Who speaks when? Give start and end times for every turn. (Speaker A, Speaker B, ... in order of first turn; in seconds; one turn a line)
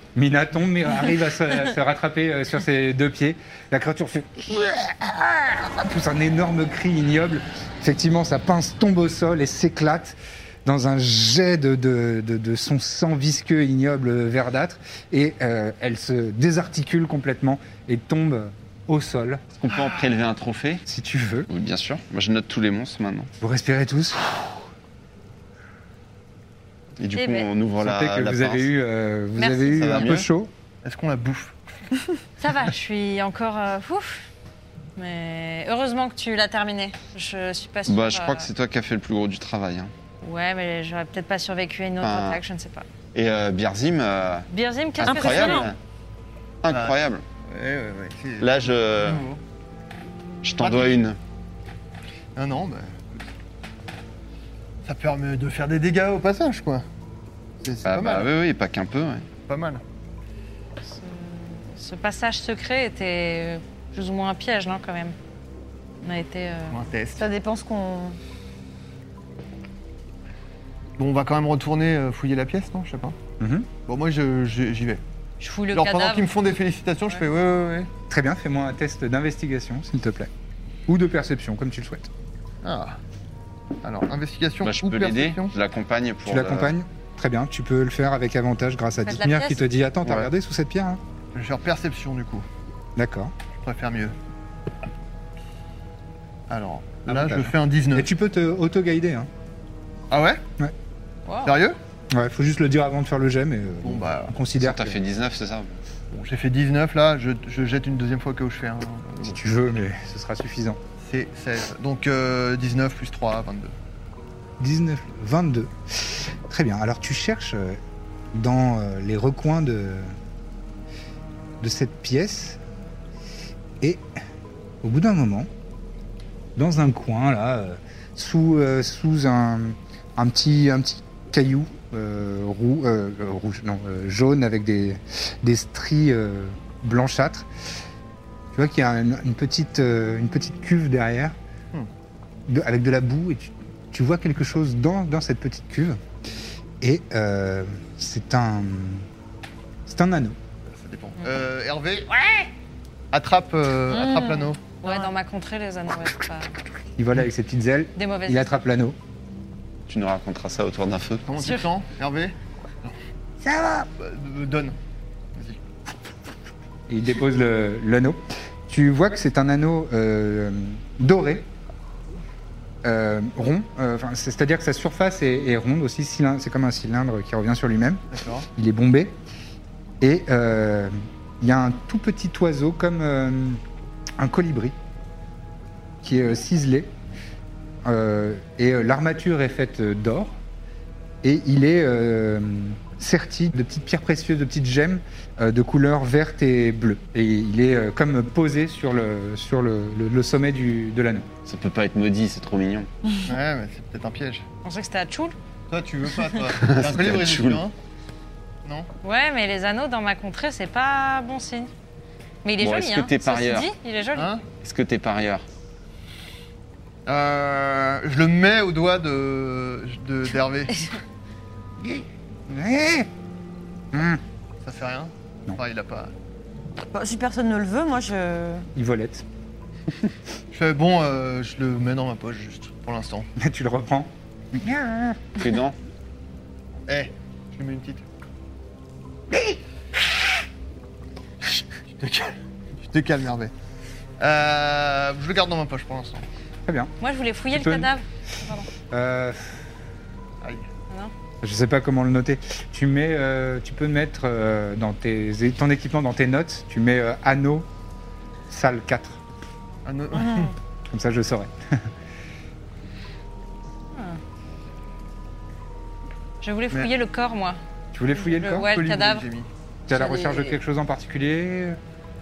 Speaker A: 0.1-19.4
Speaker B: 19.5-20.9
Speaker A: 20.9-21.5
Speaker B: 21.5-23.3
Speaker A: 23.4-24.5
Speaker B: 27.0-28.7
Speaker C: 27.2-27.5
Speaker A: 27.8-30.5
Speaker C: 29.4-30.1
Speaker B: 29.8-30.3
Speaker D: 30.8-32.1
Speaker C: 32.4-34.2
Speaker C: 35.0-38.5
Speaker B: 37.9-39.9
Speaker C: 40.2-42.9
Speaker B: 42.0-42.4
Speaker B: 43.1-44.5
Speaker C: 44.5-45.7
Speaker B: 45.0-45.8
Speaker E: 45.1-45.7
Speaker B: 46.6-47.2
Speaker D: 46.7-49.4
Speaker B: 48.4-49.2
Speaker B: 50.4-51.2
Speaker D: 50.6-51.0
Speaker D: 52.4-53.2
Speaker D: 54.8-56.9
Speaker D: 57.6-58.3
Speaker B: 57.8-59.3
Speaker D: 59.5-59.8
Speaker C: 60.8-65.2
Speaker C: 66.0-66.8
Speaker D: 66.7-67.3
Speaker E: 67.2-68.2
Speaker D: 71.0-73.2
Speaker A: 73.4-73.7
Speaker D: 73.8-75.0
Speaker C: 75.4-76.3
Speaker D: 75.7-77.9
Speaker A: 78.1-80.3
Speaker A: 80.9-82.1
Speaker D: 82.6-83.0
Speaker D: 83.8-85.5
Speaker B: 84.6-86.8
Speaker A: 86.3-91.0
Speaker C: 89.0-89.7
Speaker D: 91.3-92.5
Speaker A: 93.0-93.3
Speaker D: 93.5-94.2
Speaker D: 96.5-98.1
Speaker A: 97.1-99.3
Speaker D: 100.1-100.4
Speaker C: 101.3-101.6
Speaker D: 101.5-101.8
Speaker A: 102.1-105.0
Speaker D: 103.8-104.3
Speaker B: 104.6-105.7
Speaker D: 106.1-109.4
Speaker A: 109.2-110.8
Speaker D: 111.0-113.7
Speaker A: 114.6-117.8
Speaker A: 118.3-120.2
Speaker A: 121.6-122.6
Speaker A: 124.8-125.5
Speaker A: 126.6-137.5
Speaker A: 138.5-141.3
Speaker A: 142.5-146.0
Speaker A: 146.8-149.1
Speaker A: 149.9-150.4
Speaker D: 150.7-152.5
Speaker D: 153.1-154.6
Speaker E: 153.9-155.1
Speaker C: 154.8-156.5
Speaker A: 157.0-159.0
Speaker C: 157.9-158.5
Speaker B: 159.9-161.3
Speaker D: 161.3-163.0
Speaker A: 163.4-163.9
Speaker D: 164.0-164.8
Speaker A: 166.9-171.5
Speaker A: 172.8-179.2
Speaker D: 178.1-178.5
Speaker A: 180.0-183.6
Speaker A: 184.2-184.8
Speaker A: 186.0-186.9
Speaker A: 187.8-190.4
Speaker A: 191.2-201.3
Speaker B: 201.5-202.9
Speaker D: 203.2-204.4
Speaker C: 204.6-205.4
Speaker D: 205.7-207.7
Speaker B: 206.6-207.6
Speaker C: 209.0-211.7
Speaker C: 212.4-214.3
Speaker B: 212.6-213.7
Speaker D: 214.1-214.4
Speaker B: 214.6-215.4
Speaker D: 217.1-220.8
Speaker A: 221.8-223.1
Speaker A: 223.9-224.2
Speaker D: 224.6-226.1
Speaker E: 226.9-228.7
Speaker A: 228.8-229.2
Speaker D: 230.5-233.3
Speaker A: 233.4-235.2
Speaker B: 235.4-235.8
Speaker D: 236.9-238.0
Speaker D: 241.5-243.5
Speaker D: 244.2-246.2
Speaker A: 246.7-246.9
Speaker C: 247.0-248.7
Speaker A: 247.5-247.9
Speaker A: 248.9-249.7
Speaker A: 251.4-257.7
Speaker A: 258.5-259.2
Speaker D: 259.9-260.5
Speaker A: 260.9-261.9
Speaker C: 263.9-264.2
Speaker C: 266.4-267.6
Speaker A: 267.9-269.2
Speaker C: 268.2-269.2
Speaker D: 269.0-269.5
Speaker A: 269.9-271.8
Speaker C: 269.9-270.6